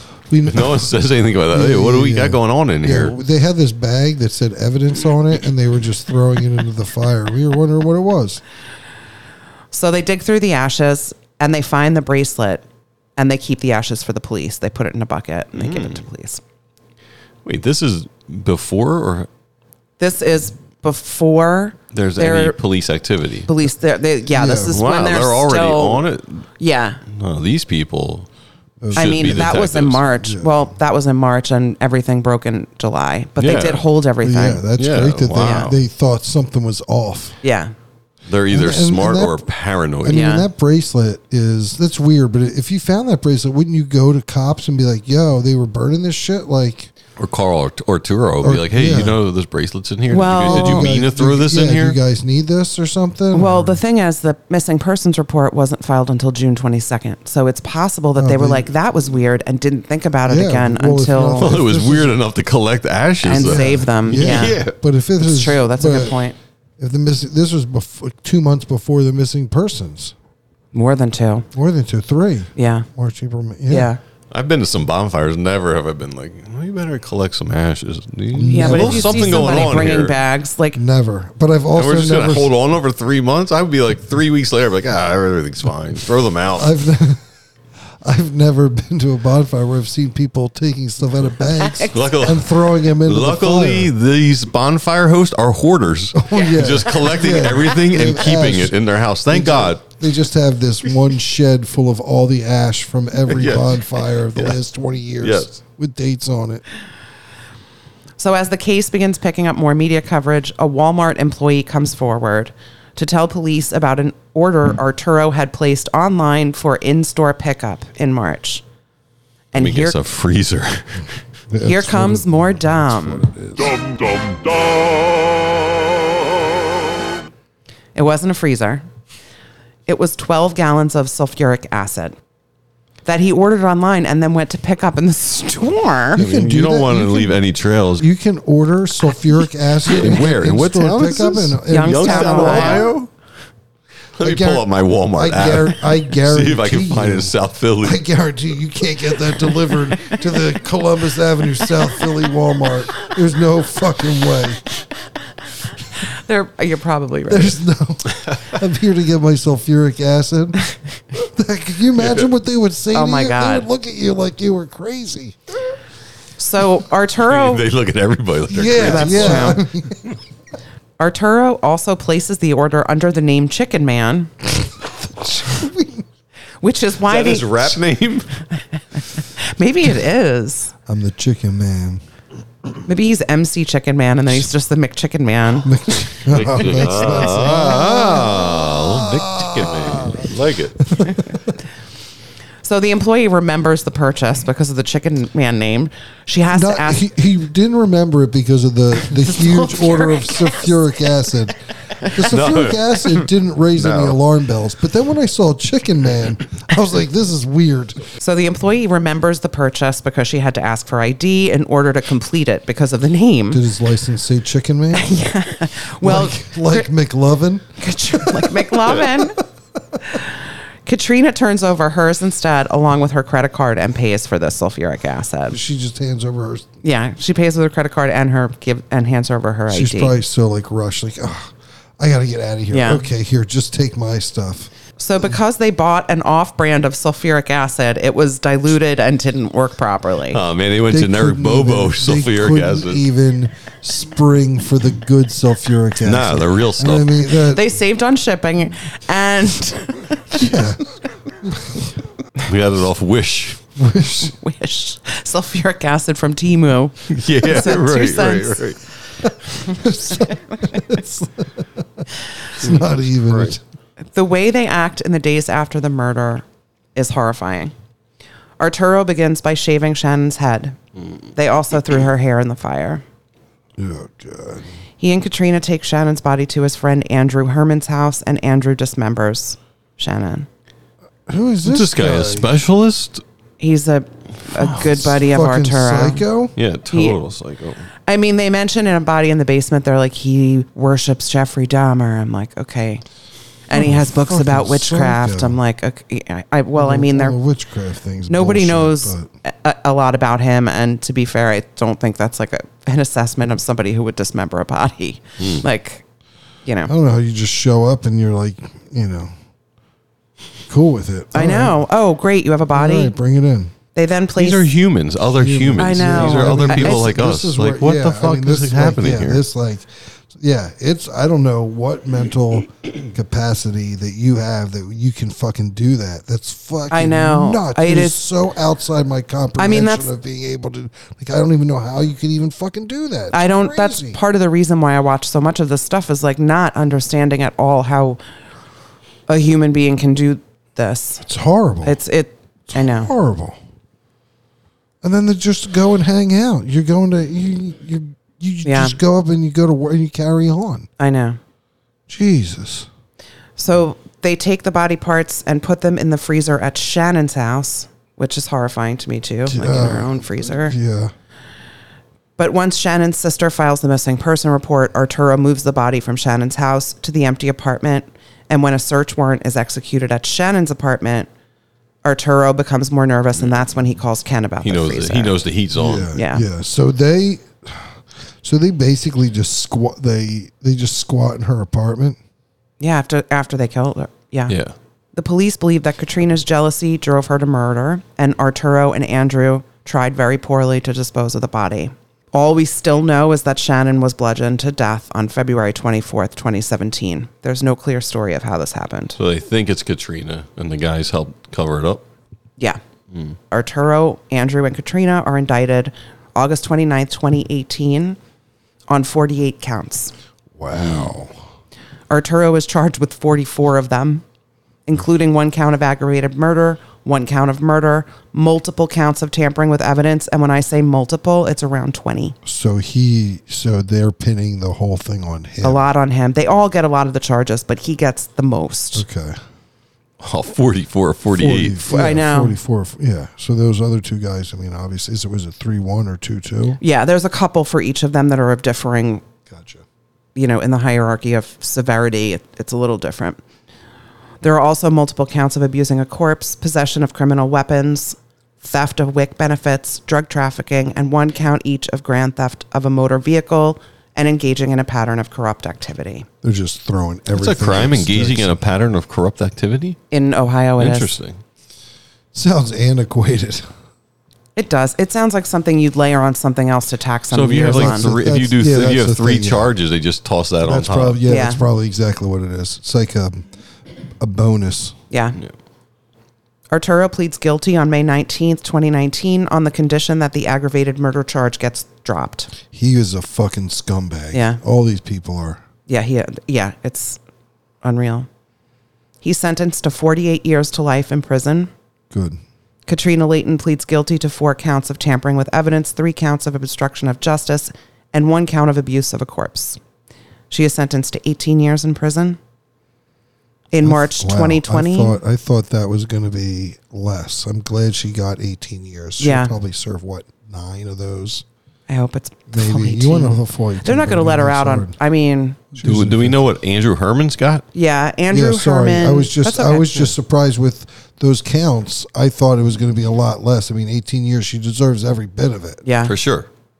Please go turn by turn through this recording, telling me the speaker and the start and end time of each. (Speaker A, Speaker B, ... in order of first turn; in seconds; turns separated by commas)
Speaker A: 0.3-1.0, Speaker B: 0.5-3.1, Speaker A: 1.5-8.4, Speaker C: 9.7-12.6, Speaker C: 13.2-16.4, Speaker B: 15.6-16.0, Speaker B: 17.4-19.3, Speaker C: 20.0-22.6, Speaker B: 21.9-23.5, Speaker C: 23.5-26.1, Speaker A: 24.3-24.8, Speaker B: 24.7-26.5, Speaker C: 26.6-27.0, Speaker B: 27.1-28.3, Speaker A: 28.8-29.6, Speaker B: 28.9-30.0, Speaker C: 28.9-34.6, Speaker A: 30.2-30.7, Speaker B: 33.4-33.8, Speaker A: 34.2-37.4, Speaker B: 34.8-35.8, Speaker C: 35.4-35.7, Speaker C: 37.4-37.7, Speaker B: 38.3-40.3, Speaker A: 38.5-39.5, Speaker A: 40.0-46.9, Speaker C: 40.1-40.5, Speaker B: 47.2-52.0, Speaker A: 48.4-49.1, Speaker C: 50.1-50.9, Speaker A: 50.4-53.8, Speaker C: 53.3-61.6, Speaker A: 58.2-58.7, Speaker A: 60.3-62.1, Speaker B: 61.4-64.8, Speaker C: 63.2-64.6, Speaker A: 63.3-66.2, Speaker C: 65.2-66.3, Speaker A: 66.8-70.1, Speaker C: 70.7-71.5, Speaker A: 71.5-73.9, Speaker C: 72.5-72.9, Speaker C: 73.7-74.0, Speaker B: 74.3-80.1, Speaker A: 78.3-79.9, Speaker C: 78.5-80.8, Speaker A: 80.7-82.5, Speaker B: 81.7-86.7, Speaker A: 86.5-87.2, Speaker A: 88.0-93.9, Speaker C: 91.6-92.0, Speaker B: 91.9-99.8, Speaker A: 96.1-98.8, Speaker A: 99.3-106.6, Speaker B: 103.3-104.6, Speaker B: 105.2-105.5, Speaker C: 108.2-118.6, Speaker C: 119.5-120.0, Speaker B: 119.5-121.2, Speaker A: 121.5-123.8, Speaker C: 121.6-123.2, Speaker C: 127.9-128.8, Speaker C: 129.9-132.2, Speaker C: 133.0-136.2, Speaker A: 136.2-137.4, Speaker B: 136.2-138.0, Speaker A: 138.0-142.9, Speaker B: 139.8-143.1, Speaker C: 141.7-142.9, Speaker B: 144.2-148.0, Speaker A: 144.2-154.6, Speaker C: 156.0-157.6, Speaker A: 157.3-165.4, Speaker B: 162.0-162.3, Speaker C: 162.9-163.7, Speaker C: 166.4-167.6, Speaker B: 167.3-169.6, Speaker A: 168.5-170.1, Speaker C: 168.8-169.6, Speaker C: 171.0-174.3, Speaker A: 174.8-176.0, Speaker C: 176.6-177.7, Speaker B: 177.1-178.4, Speaker C: 178.9-180.7, Speaker A: 180.9-182.0, Speaker C: 182.8-185.7, Speaker A: 185.6-191.6, Speaker B: 186.3-191.1, Speaker C: 192.6-197.0, Speaker A: 196.5-201.6, Speaker C: 199.1-201.0, Speaker A: 202.1-208.1, Speaker B: 202.3-203.2, Speaker B: 203.8-204.2, Speaker C: 208.2-213.6, Speaker A: 213.5-215.1, Speaker C: 214.9-216.9, Speaker A: 216.0-219.2, Speaker C: 217.8-219.4, Speaker C: 220.8-225.6, Speaker A: 225.5-226.7, Speaker C: 226.8-230.1, Speaker A: 229.7-234.7, Speaker C: 232.7-233.1, Speaker C: 235.0-240.4, Speaker B: 240.3-243.0, Speaker A: 240.9-247.7, Speaker B: 246.0-247.3, Speaker C: 247.5-250.7, Speaker A: 250.3-250.8, Speaker A: 251.4-251.9, Speaker B: 252.4-253.6, Speaker A: 253.8-254.3, Speaker C: 254.2-258.7, Speaker B: 257.1-258.8, Speaker C: 259.6-260.8, Speaker A: 259.7-263.6, Speaker B: 262.6-263.6, Speaker C: 264.1-267.7, Speaker C: 268.6-270.8, Speaker C: 271.3-273.0, Speaker A: 273.8-274.6, Speaker C: 275.0-280.5, Speaker A: 281.3-282.5, Speaker B: 281.6-283.2, Speaker C: 283.6-286.2, Speaker A: 284.8-286.5, Speaker B: 286.6-287.9, Speaker C: 286.9-287.2, Speaker C: 288.1-293.0, Speaker C: 293.7-297.4, Speaker A: 293.7-295.6, Speaker A: 296.7-299.3, Speaker C: 298.3-306.0, Speaker C: 306.6-306.9, Speaker A: 306.9-309.3, Speaker A: 310.7-311.8, Speaker C: 311.3-313.1, Speaker A: 312.7-313.7, Speaker C: 313.9-314.7, Speaker B: 314.3-319.4, Speaker A: 315.3-334.2, Speaker C: 315.8-317.1, Speaker C: 326.9-328.2, Speaker C: 329.6-330.1, Speaker C: 333.3-338.2, Speaker C: 339.3-341.2, Speaker A: 341.2-342.0, Speaker C: 341.8-343.1, Speaker A: 342.7-343.6, Speaker A: 345.0-350.9, Speaker C: 348.6-349.0, Speaker C: 351.0-351.4, Speaker A: 352.1-352.9, Speaker C: 353.6-360.8, Speaker A: 359.4-361.1, Speaker C: 362.4-371.3, Speaker C: 372.0-375.4, Speaker B: 374.6-376.1, Speaker A: 375.7-382.2, Speaker C: 376.1-376.4, Speaker C: 382.8-384.5, Speaker B: 384.5-384.7, Speaker C: 385.1-399.2, Speaker B: 399.2-402.0, Speaker C: 403.5-408.2, Speaker C: 408.9-410.1, Speaker A: 410.6-411.3, Speaker B: 410.7-411.1, Speaker C: 412.1-414.2, Speaker C: 414.9-422.4, Speaker A: 422.4-425.8, Speaker C: 425.6-429.0, Speaker A: 428.9-429.4, Speaker B: 430.2-431.8, Speaker A: 431.3-436.8, Speaker C: 431.9-432.6, Speaker C: 436.8-439.2, Speaker A: 439.5-439.8, Speaker C: 440.3-443.4, Speaker C: 444.4-456.3, Speaker A: 456.4-458.6, Speaker B: 457.3-460.0, Speaker C: 460.1-461.1, Speaker B: 460.8-461.4, Speaker A: 462.3-463.6, Speaker C: 464.5-468.1, Speaker B: 467.3-471.2, Speaker A: 467.6-469.7, Speaker A: 470.6-473.5, Speaker C: 471.3-471.6, Speaker A: 474.2-475.0, Speaker C: 475.1-475.4, Speaker C: 476.7-482.5, Speaker A: 482.7-485.6, Speaker C: 484.3-484.6, Speaker C: 485.9-487.2, Speaker C: 487.8-488.3, Speaker C: 489.2-491.7, Speaker A: 492.1-492.4, Speaker C: 492.9-499.8, Speaker C: 500.5-502.4, Speaker C: 503.7-505.2, Speaker A: 503.8-511.4, Speaker C: 509.2-509.5, Speaker C: 511.9-515.6, Speaker A: 512.5-514.9, Speaker A: 515.7-516.4, Speaker B: 515.8-517.6, Speaker C: 517.7-520.1, Speaker A: 518.3-525.8, Speaker C: 525.8-526.1, Speaker B: 526.0-526.5